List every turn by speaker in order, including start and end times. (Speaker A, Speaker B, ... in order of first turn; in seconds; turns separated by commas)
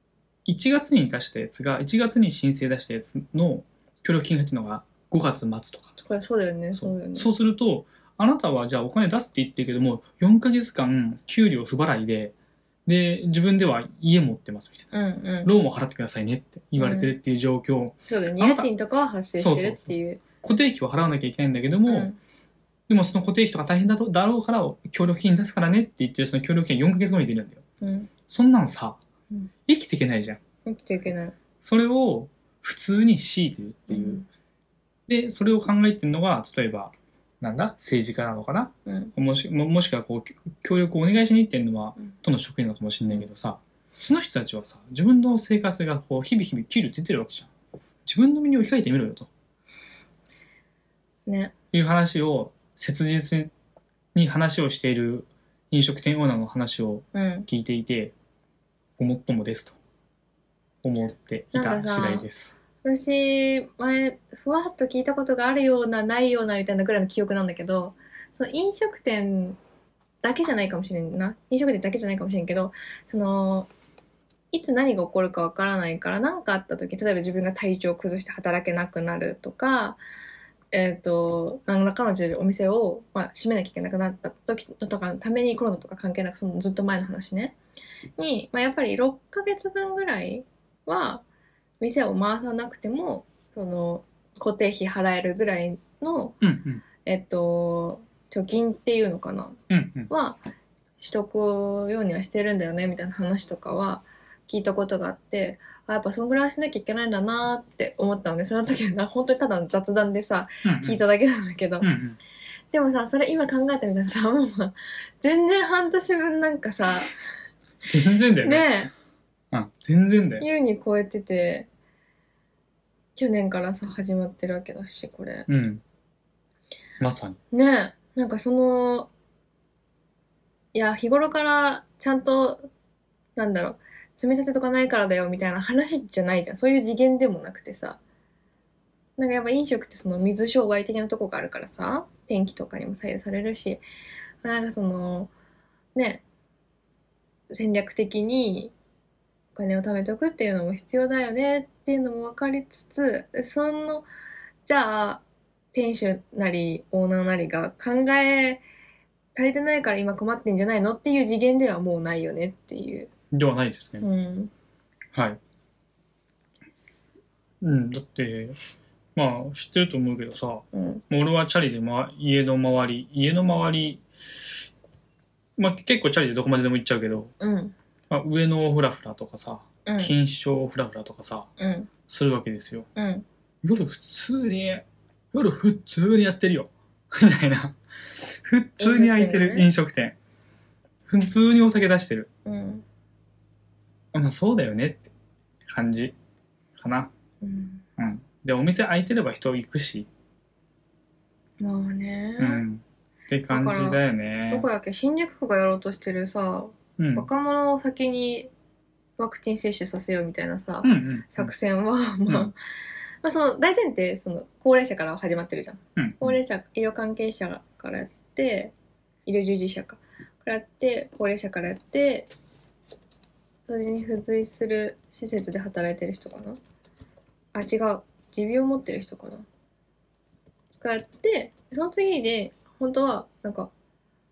Speaker A: 0.5-6.0, Speaker B: 6.0-7.3, Speaker A: 6.7-12.3, Speaker A: 12.8-14.9, Speaker B: 14.9-15.5, Speaker A: 15.4-18.7, Speaker B: 16.8-17.1, Speaker B: 18.1-20.2, Speaker A: 19.3-22.1, Speaker B: 21.9-22.2, Speaker A: 22.9-27.6, Speaker B: 27.8-28.1, Speaker A: 28.3-29.0, Speaker A: 29.7-30.4, Speaker B: 30.6-31.4, Speaker A: 31.6-34.2, Speaker B: 33.9-34.2, Speaker A: 35.1-47.5, Speaker B: 38.9-39.1, Speaker A: 48.0-49.3, Speaker B: 51.2-51.5, Speaker A: 51.7-53.5, Speaker A: 54.1-58.1, Speaker B: 57.1-57.5, Speaker A: 59.0-59.8, Speaker A: 60.8-62.5, Speaker B: 61.5-62.2, Speaker B: 62.8-69.6, Speaker B: 70.2-73.7, Speaker B: 74.5-80.0, Speaker B: 80.7-87.5, Speaker B: 88.2-91.2, Speaker B: 91.8-96.4, Speaker A: 96.4-96.8, Speaker B: 97.0-99.6, Speaker A: 99.7-100.1, Speaker B: 100.1-100.4, Speaker B: 101.0-111.9, Speaker A: 110.6-111.0, Speaker A: 111.8-112.2, Speaker B: 112.7-117.1, Speaker A: 117.8-118.8, Speaker B: 118.4-118.9, Speaker A: 119.5-120.5, Speaker B: 120.4-121.7, Speaker B: 123.2-125.5, Speaker A: 125.5-125.8, Speaker A: 127.0-127.4, Speaker B: 127.5-129.1, Speaker B: 130.7-132.7, Speaker B: 133.3-138.0, Speaker B: 139.2-143.8, Speaker B: 144.4-145.3, Speaker B: 145.9-146.2, Speaker B: 147.5-148.7, Speaker B: 149.5-154.1, Speaker B: 154.7-158.6, Speaker B: 159.3-163.1, Speaker A: 163.3-164.1, Speaker B: 164.0-164.5, Speaker A: 165.1-165.4, Speaker A: 167.6-168.6, Speaker A: 169.2-174.0, Speaker B: 170.7-171.0, Speaker A: 175.6-177.3, Speaker B: 177.4-177.7, Speaker A: 178.1-181.5, Speaker B: 179.8-180.1, Speaker B: 181.6-181.9, Speaker A: 182.1-182.9, Speaker B: 182.9-183.2, Speaker A: 183.6-187.8, Speaker A: 188.3-190.2, Speaker B: 188.8-189.7, Speaker A: 191.1-192.3, Speaker B: 192.4-192.8, Speaker A: 194.1-195.1, Speaker A: 195.7-196.1, Speaker A: 196.8-197.1, Speaker B: 197.4-197.8, Speaker A: 198.0-200.1, Speaker B: 201.6-202.6, Speaker A: 202.4-204.7, Speaker B: 203.5-208.5, Speaker A: 207.0-207.3, Speaker B: 209.2-212.6, Speaker A: 210.8-211.5, Speaker A: 212.3-212.5, Speaker B: 213.2-218.7, Speaker A: 215.9-216.4, Speaker B: 219.2-222.3, Speaker B: 223.6-226.6, Speaker B: 227.5-229.4, Speaker B: 230.8-233.7